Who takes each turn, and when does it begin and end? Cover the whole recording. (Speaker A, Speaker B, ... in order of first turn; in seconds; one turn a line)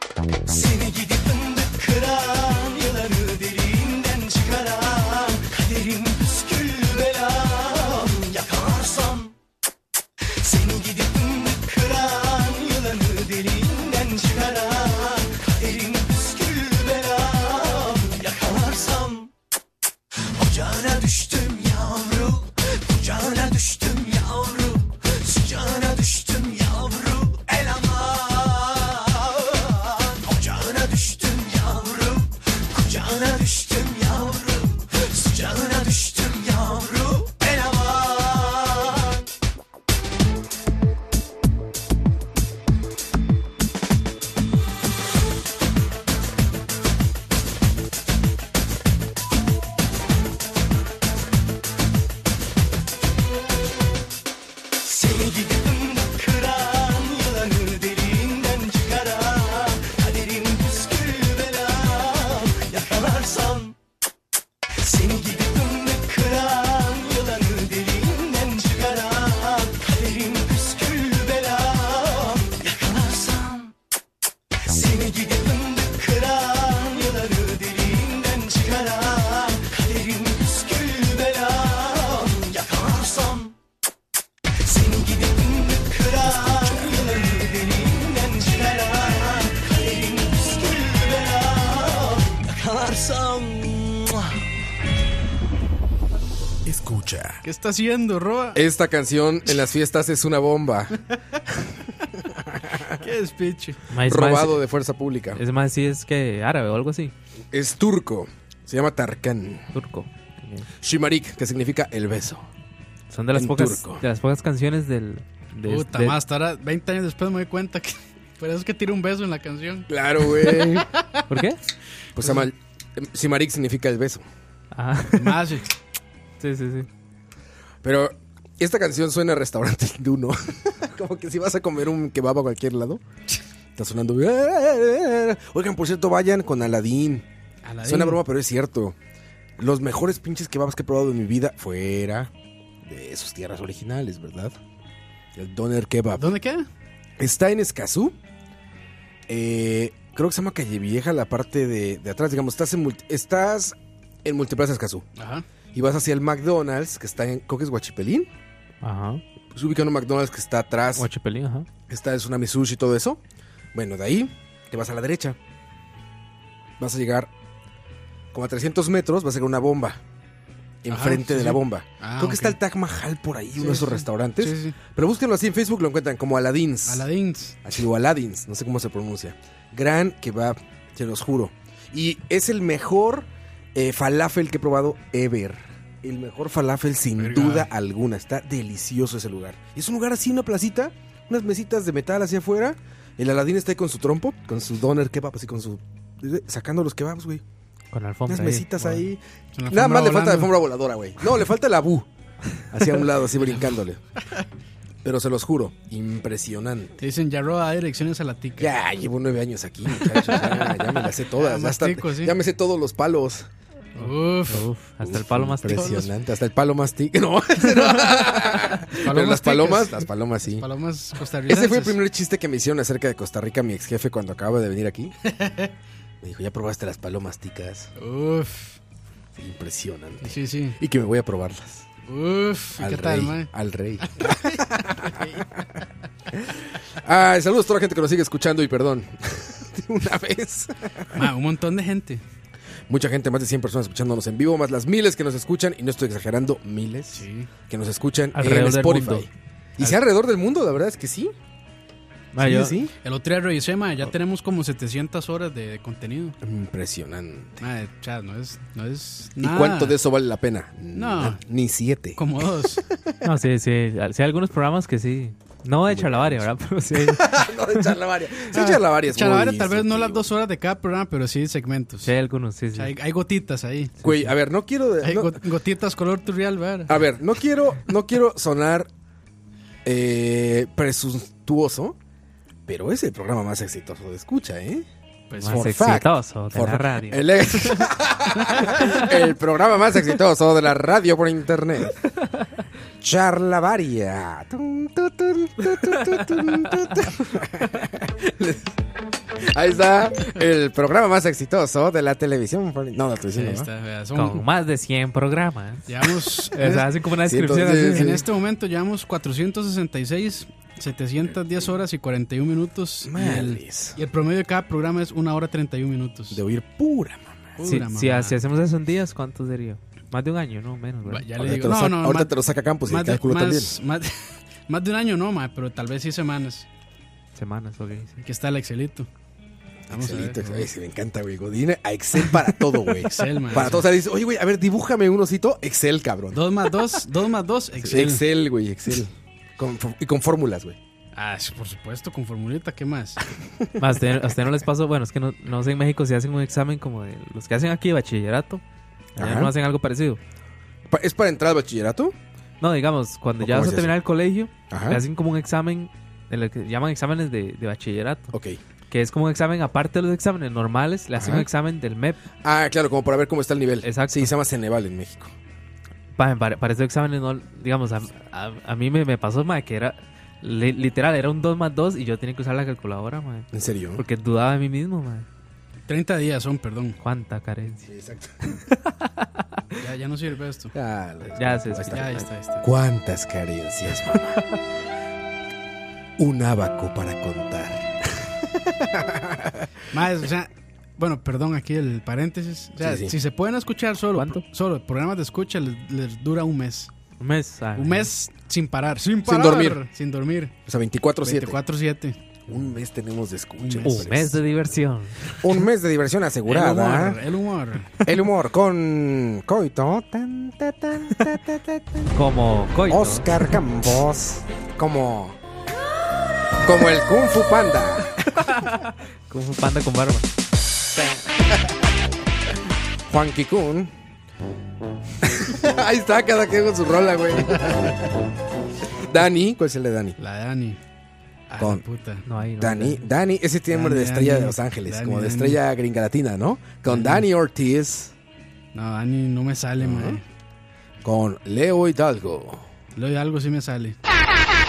Speaker A: 0.5-9.3
Speaker A: 10.4-19.3
Speaker A: 20.3-39.2
Speaker A: 54.8-63.8
Speaker A: 64.8-73.7
Speaker A: 74.7-83.5
Speaker A: 84.6-94.4
Speaker B: 86.3-87.1
Speaker B: 96.7-97.4
Speaker C: 97.4-98.6
Speaker B: 98.5-101.0
Speaker B: 102.5-102.8
Speaker C: 102.9-103.8
Speaker D: 103.9-104.6
Speaker B: 104.0-105.4
Speaker D: 105.4-107.1
Speaker B: 107.5-109.7
Speaker D: 109.7-110.7
Speaker B: 110.8-112.5
Speaker D: 113.1-116.2
Speaker B: 113.3-114.0
Speaker C: 115.7-121.2
Speaker B: 119.9-120.9
Speaker D: 121.3-121.6
Speaker B: 122.2-124.2
Speaker D: 124.7-125.5
Speaker C: 125.1-125.7
Speaker D: 126.4-126.9
Speaker B: 127.8-133.0
Speaker B: 133.8-137.3
Speaker C: 137.7-138.2
Speaker B: 137.8-139.0
Speaker B: 139.6-142.3
Speaker B: 142.8-144.6
Speaker B: 145.3-146.3
Speaker C: 146.2-146.7
Speaker B: 147.2-148.2
Speaker B: 149.3-155.1
Speaker C: 155.2-155.4
Speaker B: 155.7-158.3
Speaker D: 158.8-159.2
Speaker B: 159.5-161.1
Speaker D: 161.0-161.7
Speaker B: 161.9-163.2
Speaker B: 163.7-165.4
Speaker B: 166.8-167.3
Speaker B: 168.3-170.0
Speaker B: 170.8-177.1
Speaker C: 170.9-172.6
Speaker C: 173.6-174.8
Speaker C: 176.9-177.6
Speaker B: 177.6-197.4
Speaker C: 187.2-187.7
Speaker D: 197.9-199.0
Speaker B: 198.3-202.1
Speaker C: 199.6-200.5
Speaker B: 202.7-204.0
Speaker B: 205.0-207.0
Speaker C: 207.0-208.7
Speaker B: 208.6-213.5
Speaker C: 210.2-210.7
Speaker C: 211.3-212.3
Speaker C: 214.0-214.7
Speaker D: 214.0-216.0
Speaker B: 215.0-220.7
Speaker C: 215.7-216.1
Speaker C: 218.9-222.0
Speaker B: 221.5-225.1
Speaker C: 225.3-225.7
Speaker B: 226.2-227.9
Speaker C: 228.0-228.8
Speaker B: 229.3-231.9
Speaker C: 230.2-230.8
Speaker C: 232.1-233.5
Speaker B: 232.8-235.7
Speaker C: 234.0-235.4
Speaker B: 236.3-241.3
Speaker C: 241.1-242.2
Speaker B: 242.9-251.3
Speaker C: 247.1-247.5
Speaker D: 248.3-249.3
Speaker D: 252.3-252.8
Speaker B: 252.4-252.9
Speaker C: 253.0-256.4
Speaker B: 256.4-257.6
Speaker C: 257.6-260.0
Speaker B: 259.4-262.2
Speaker C: 260.9-261.4
Speaker C: 262.2-262.8
Speaker D: 263.2-267.9
Speaker B: 265.9-270.3
Speaker C: 268.5-272.1
Speaker D: 272.1-272.9
Speaker C: 272.7-274.0
Speaker B: 274.0-275.4
Speaker C: 275.0-277.0
Speaker B: 276.9-278.9
Speaker B: 279.9-282.0
Speaker B: 282.7-284.9
Speaker C: 285.3-285.7
Speaker D: 285.4-287.9
Speaker B: 285.5-292.0
Speaker B: 293.0-298.3
Speaker D: 295.8-296.4
Speaker B: 299.5-303.7
Speaker C: 303.4-304.4
Speaker D: 304.1-305.9
Speaker C: 305.9-306.9
Speaker D: 306.5-308.1
Speaker B: 307.2-308.2
Speaker C: 307.7-316.4
Speaker B: 313.0-314.0
Speaker B: 316.3-317.6
Speaker C: 317.6-318.4
Speaker D: 317.6-321.3
Speaker C: 321.1-322.3
Speaker B: 321.4-323.8
Speaker C: 322.9-326.7
Speaker D: 327.4-328.2
Speaker C: 328.2-329.1
Speaker B: 329.9-336.4
Speaker C: 329.9-330.7
Speaker C: 332.5-333.9
Speaker C: 336.3-338.2
Speaker B: 337.8-340.8
Speaker C: 341.1-343.2
Speaker D: 343.8-348.6
Speaker D: 349.2-350.2
Speaker B: 349.2-349.5
Speaker B: 350.9-352.1
Speaker D: 352.6-358.3
Speaker B: 353.4-353.9
Speaker B: 354.7-355.0
Speaker B: 358.3-358.6
Speaker D: 358.9-362.2
Speaker B: 361.1-361.5
Speaker B: 362.4-365.3
Speaker D: 363.8-364.3
Speaker D: 366.2-375.3
Speaker B: 373.5-374.0
Speaker C: 375.9-377.0
Speaker D: 377.0-377.9
Speaker B: 377.9-378.4
Speaker D: 378.5-379.4
Speaker C: 379.8-380.7
Speaker B: 380.7-384.4
Speaker D: 381.4-382.3
Speaker C: 381.9-382.6
Speaker B: 386.2-389.7
Speaker C: 389.9-396.9
Speaker B: 392.8-393.1
Speaker D: 394.1-394.4
Speaker D: 397.2-398.1
Speaker C: 397.8-400.5
Speaker B: 399.2-399.8
Speaker B: 400.7-401.6
Speaker C: 401.2-402.2
Speaker B: 402.5-404.4
Speaker C: 403.6-404.0
Speaker D: 403.8-405.4
Speaker B: 405.4-407.2
Speaker C: 406.5-408.0
Speaker B: 408.1-412.1
Speaker D: 412.1-413.5
Speaker B: 412.9-415.4
Speaker B: 416.6-418.4
Speaker D: 418.4-420.3
Speaker B: 423.1-423.9
Speaker B: 425.2-427.7
Speaker C: 427.5-427.9
Speaker B: 429.0-430.2
Speaker C: 430.2-430.8
Speaker C: 431.5-432.2
Speaker D: 432.3-433.0
Speaker B: 432.6-438.1
Speaker C: 433.7-435.6
Speaker C: 436.9-437.2
Speaker C: 438.7-440.2
Speaker B: 439.8-440.2
Speaker B: 441.0-442.6
Speaker C: 442.9-444.0